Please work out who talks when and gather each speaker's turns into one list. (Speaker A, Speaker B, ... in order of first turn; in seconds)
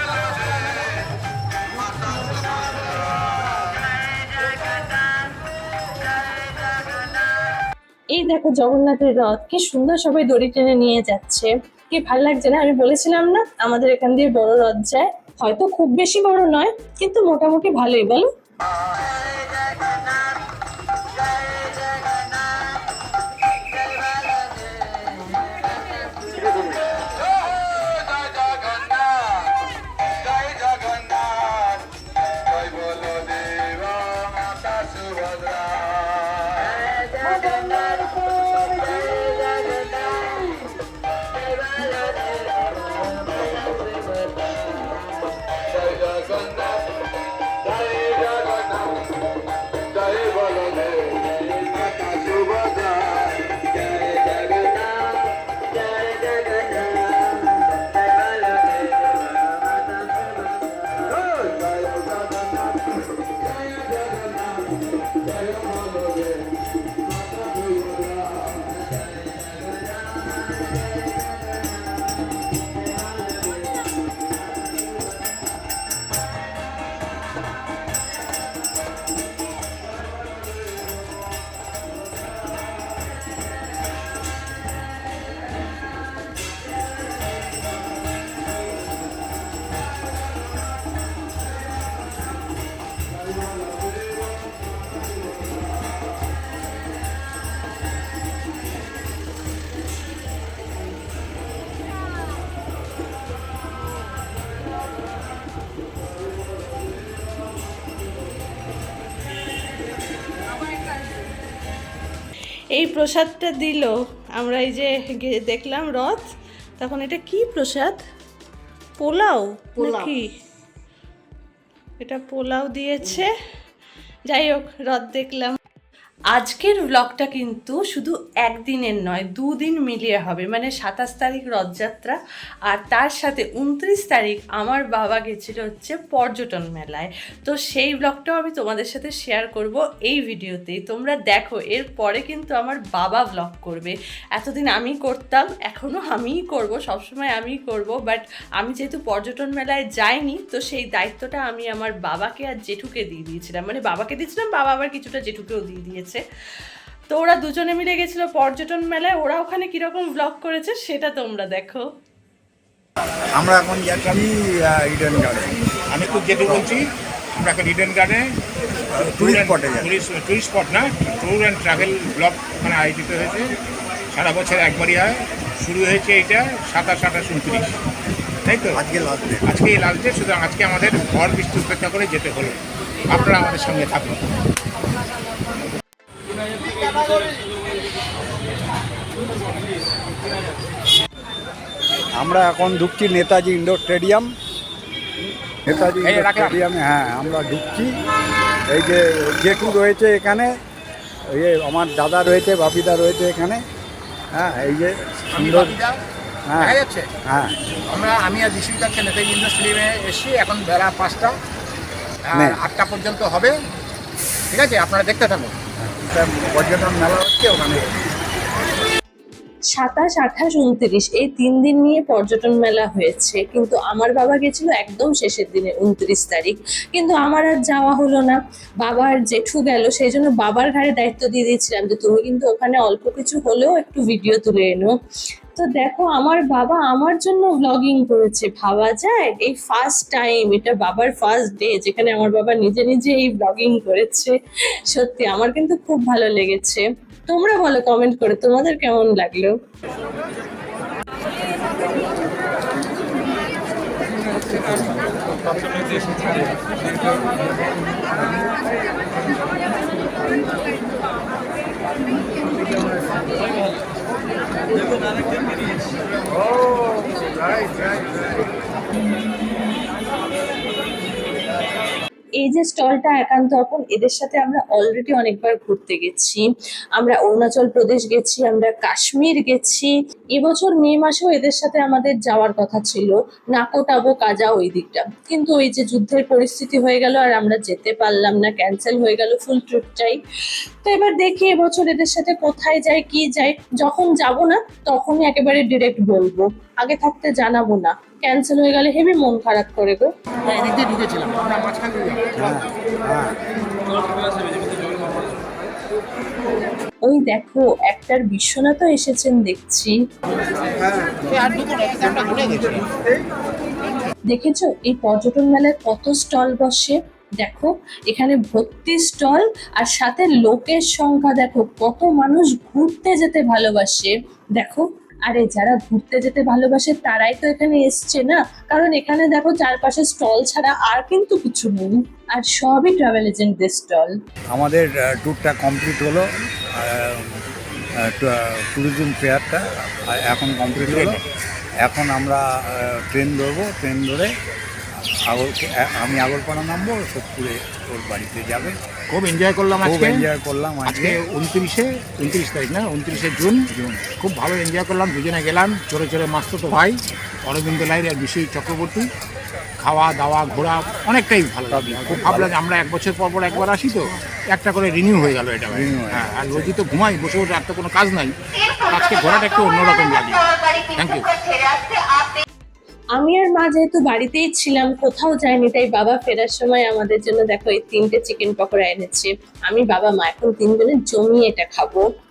Speaker A: 8.1-18.3, 112.7-118.0, 119.0-120.3, 122.0-123.3, 124.3-125.6, 126.3-156.2, 157.1-161.8, 219.7-234.9, 235.6-244.3, 244.9-249.5, 272.4-276.4, 277.0-290.2, 290.8-300.1, 307.1-310.0, 314.3-334.1, 373.2-382.1
Speaker B: 163.4-165.6, 169.0-169.9, 178.7-179.5, 192.2-194.3, 195.7-197.9, 198.7-200.5, 201.3-203.6, 204.3-205.7, 206.5-207.6, 212.3-212.6, 215.8-217.8, 302.4-303.4, 334.5-337.4, 338.0-341.2, 341.8-344.3, 345.3-348.8, 349.8-351.2, 361.7-362.5, 365.7-366.8
Speaker C: 165.9-166.9, 167.4-168.3, 169.1-173.5, 174.1-177.7, 178.4-178.8, 179.5-182.6, 183.1-184.2, 196.0-196.6, 205.3-206.0, 206.6-207.1, 207.9-211.3, 212.2-213.6, 214.5-215.5, 300.5-302.3, 311.2-313.0, 340.8-341.2, 349.1-350.1, 350.9-359.1, 359.8-372.0